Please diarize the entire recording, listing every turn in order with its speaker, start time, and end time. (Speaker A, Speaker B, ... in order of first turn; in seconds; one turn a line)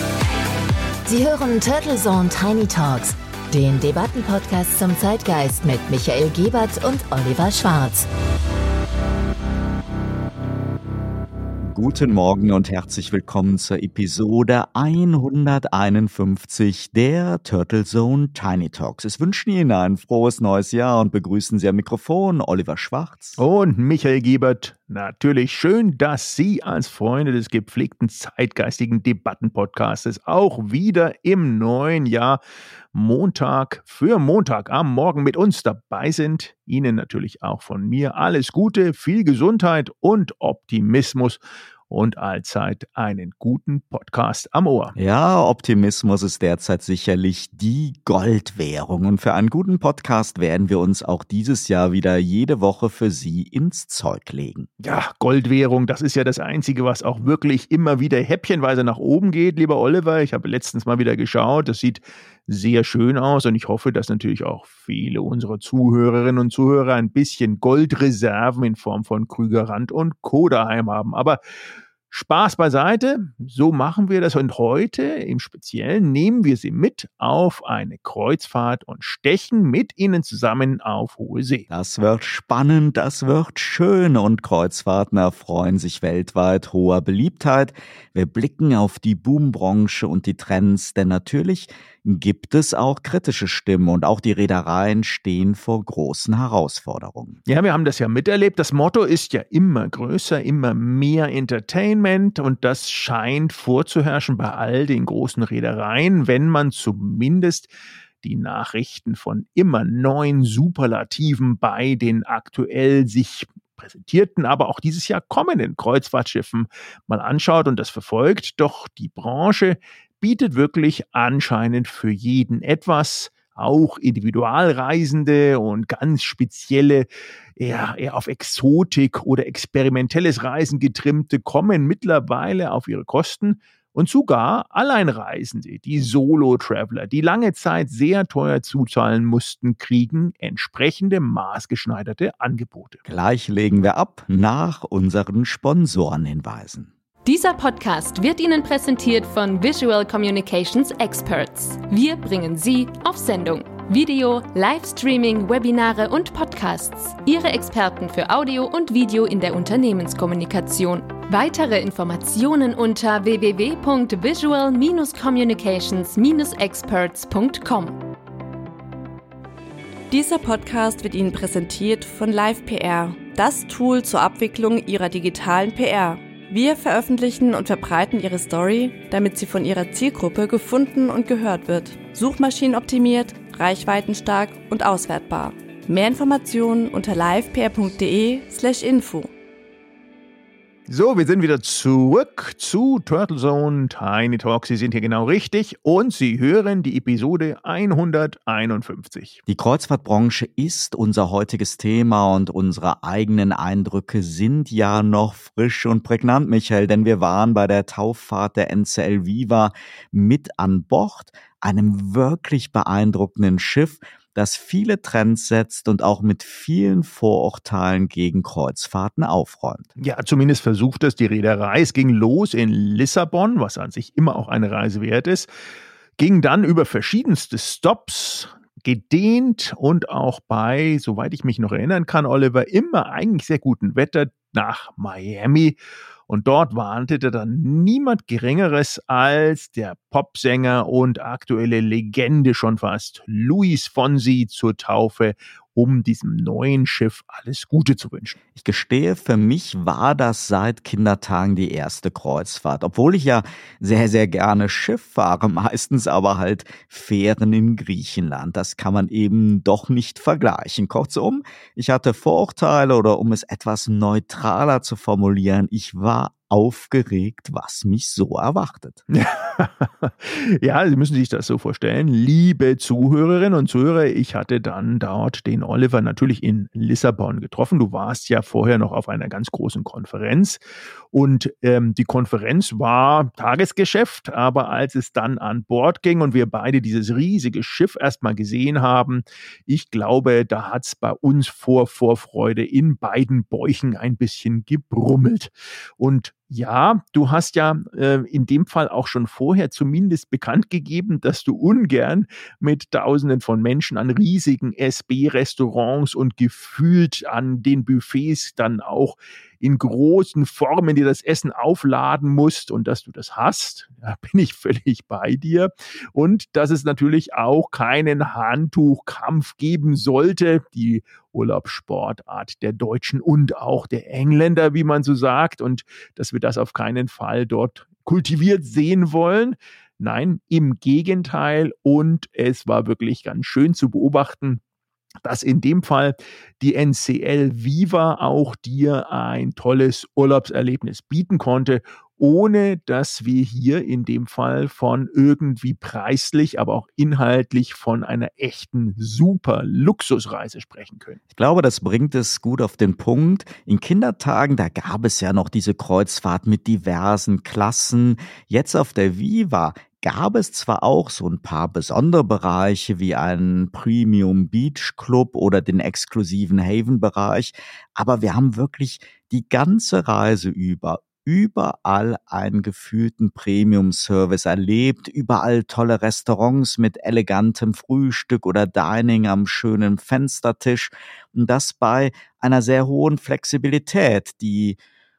Speaker A: 1.1-8.1
Speaker B: 11.6-23.4
Speaker C: 23.4-32.4
Speaker C: 32.9-45.0
Speaker B: 45.0-54.7
Speaker C: 54.8-71.4
Speaker C: 72.1-81.7
Speaker B: 81.7-97.4
Speaker C: 97.5-107.7
Speaker C: 108.2-127.1
Speaker C: 127.6-143.0
Speaker B: 143.1-146.9
Speaker D: 147.2-168.0
Speaker E: 170.1-189.3
Speaker C: 190.9-199.4
Speaker B: 199.5-219.9
Speaker C: 220.0-225.5
Speaker C: 226.2-235.8
Speaker C: 236.3-248.4
Speaker B: 248.6-269.0
Speaker C: 269.1-280.6
Speaker C: 281.1-334.6
Speaker C: 335.2-351.2
Speaker B: 351.3-384.8